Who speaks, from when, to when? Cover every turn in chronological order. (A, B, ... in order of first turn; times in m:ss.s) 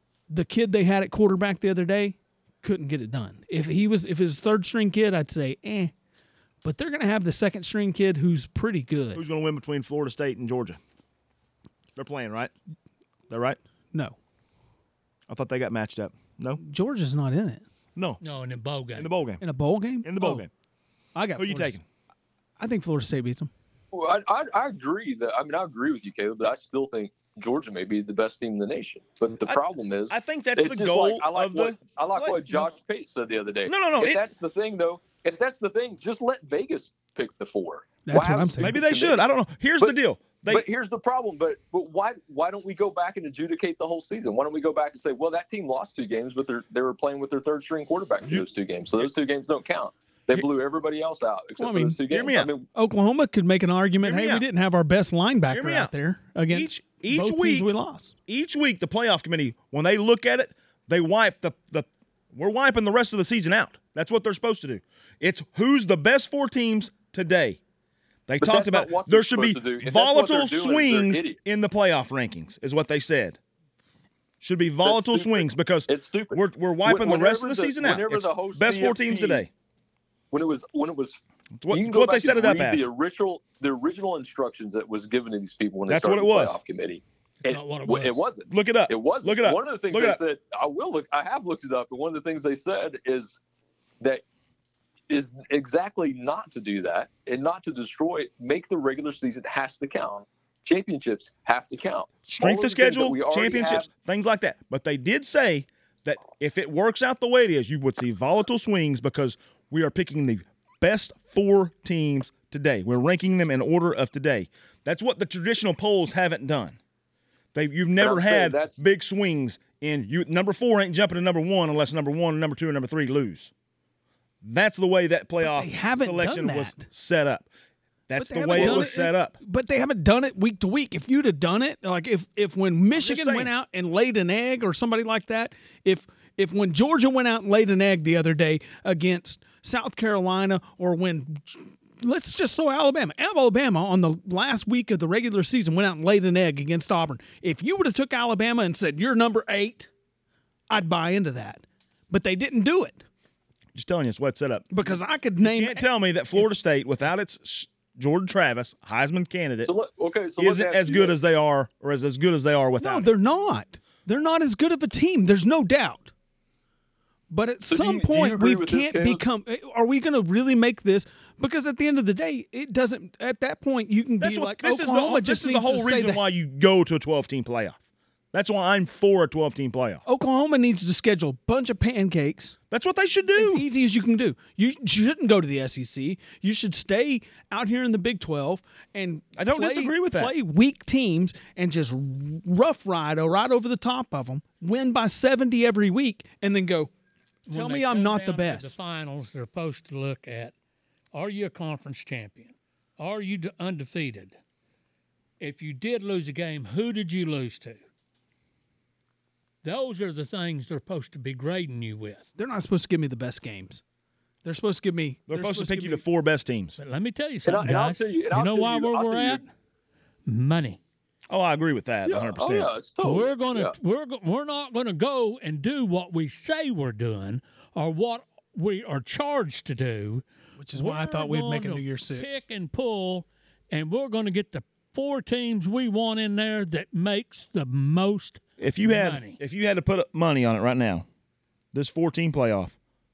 0:00.3-0:05.9 A
0:06.6-0:09.2 A
0:09.1-0:10.8 B
0:12.0-0:12.5 B
0:13.3-0:13.6 B
0:15.3-0:16.6 B
0:16.6-0:17.6 A
0:18.0-0:18.2 B
0:18.2-0:19.1 C
0:19.0-0:19.4 B
0:19.4-0:20.5 A
0:20.0-0:20.5 B
0:21.2-0:21.8 A
0:21.4-0:21.8 B
0:22.6-0:23.5 A
0:23.9-0:39.2 D
0:29.4-0:32.7 B
0:33.7-0:34.3 B
0:38.1-0:38.8 A
0:38.6-0:40.7 B
0:40.5-0:52.7 D
0:51.6-0:52.0 A
0:52.1-0:52.5 B
0:52.7-0:58.2 A
0:54.0-0:54.5 B
0:55.5-0:55.9 B
0:56.5-0:57.7 B
0:58.3-1:07.6 B
1:08.3-1:13.4 B
1:08.4-1:11.4 D
1:14.4-1:19.5 B
1:14.8-1:19.5 D
1:20.3-1:21.2 D
1:21.6-1:22.9 B
1:21.7-1:33.4 D
1:25.9-1:26.6 B
1:27.4-1:28.2 C
1:28.5-1:30.2 B
1:35.1-1:43.9 D
1:42.3-1:56.8 B
1:57.5-2:03.5 B
1:58.0-1:58.8 D
2:04.4-2:07.5 B
2:05.4-2:06.9 A
2:08.1-2:09.4 B
2:08.2-2:29.9 A
2:08.6-2:08.9 D
2:12.9-2:13.5 B
2:30.7-2:33.0 A
2:33.7-2:34.7 B
2:34.7-2:36.5 A
2:35.4-2:39.7 B
2:39.6-2:41.2 D
2:40.4-2:43.1 B
2:42.8-2:46.1 A
2:47.3-2:56.2 A
2:47.7-2:49.2 D
2:54.2-2:57.8 B
2:58.3-3:00.0 B
3:00.1-3:02.6 A
3:02.7-3:03.7 B
3:03.4-3:16.9 A
3:09.4-3:10.3 B
3:17.5-3:20.5 C
3:17.5-3:18.8 A
3:21.1-3:24.4 C
3:25.4-3:27.8 C
3:29.6-3:32.3 C
3:32.4-3:33.8 A
3:34.4-3:36.0 A
3:35.3-3:36.8 B
3:36.8-3:39.5 C
3:37.4-3:39.4 D
3:40.3-3:40.8 C
3:41.3-3:42.7 B
3:42.0-3:43.7 D
3:43.0-3:59.4 C
3:50.6-3:52.4 A
3:58.6-4:01.1 B
4:01.7-4:02.8 B